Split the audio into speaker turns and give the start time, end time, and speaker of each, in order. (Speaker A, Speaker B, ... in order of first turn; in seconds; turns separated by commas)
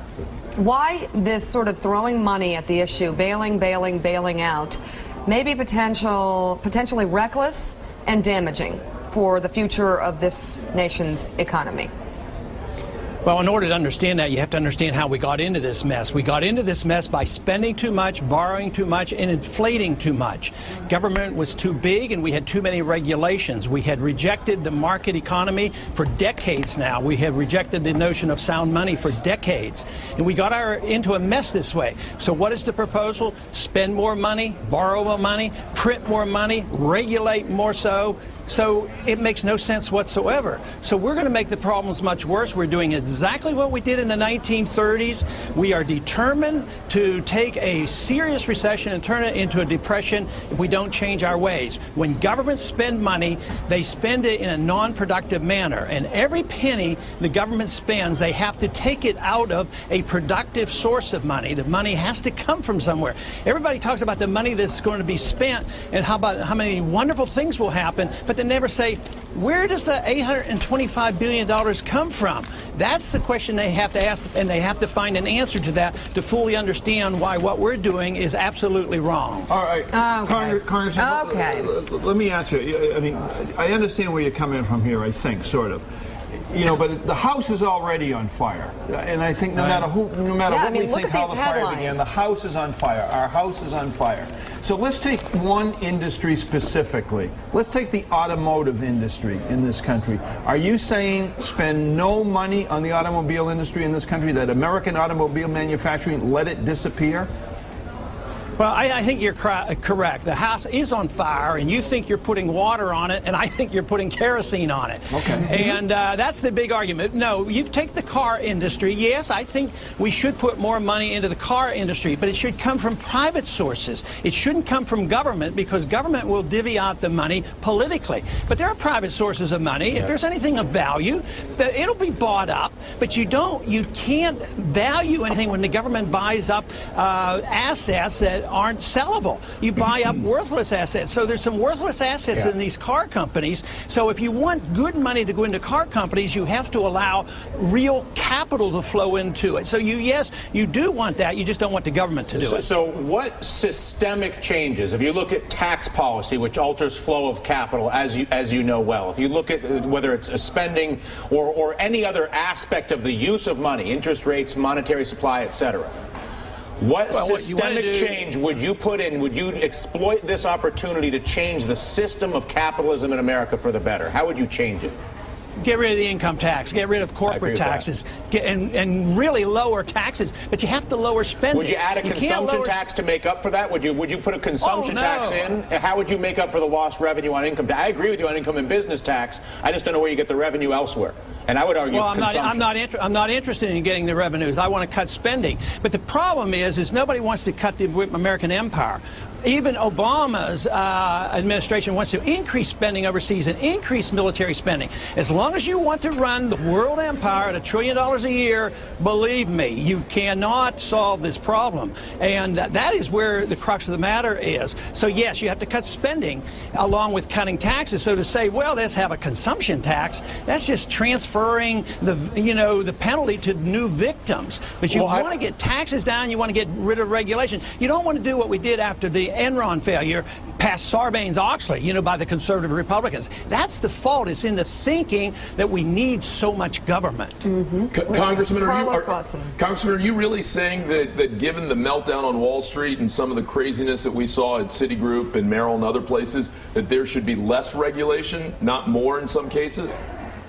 Speaker A: 0.6-11.9, Speaker B: 13.2-79.5, Speaker C: 79.5-85.8, Speaker A: 79.9-81.7, Speaker C: 86.5-107.3, Speaker B: 89.5-89.8, Speaker A: 90.5-92.1, Speaker B: 108.6-152.7, Speaker C: 115.1-115.8, Speaker D: 152.5-165.8, Speaker D: 166.8-174.9, Speaker B: 167.1-168.2, Speaker C: 167.5-168.0, Speaker B: 175.6-182.8, Speaker D: 177.3-177.6, Speaker D: 181.6-184.8, Speaker B: 184.6-185.5, Speaker D: 185.6-192.5, Speaker B: 191.9-237.4, Speaker C: 224.9-225.2, Speaker A: 237.4-239.5, Speaker E: 237.9-250.0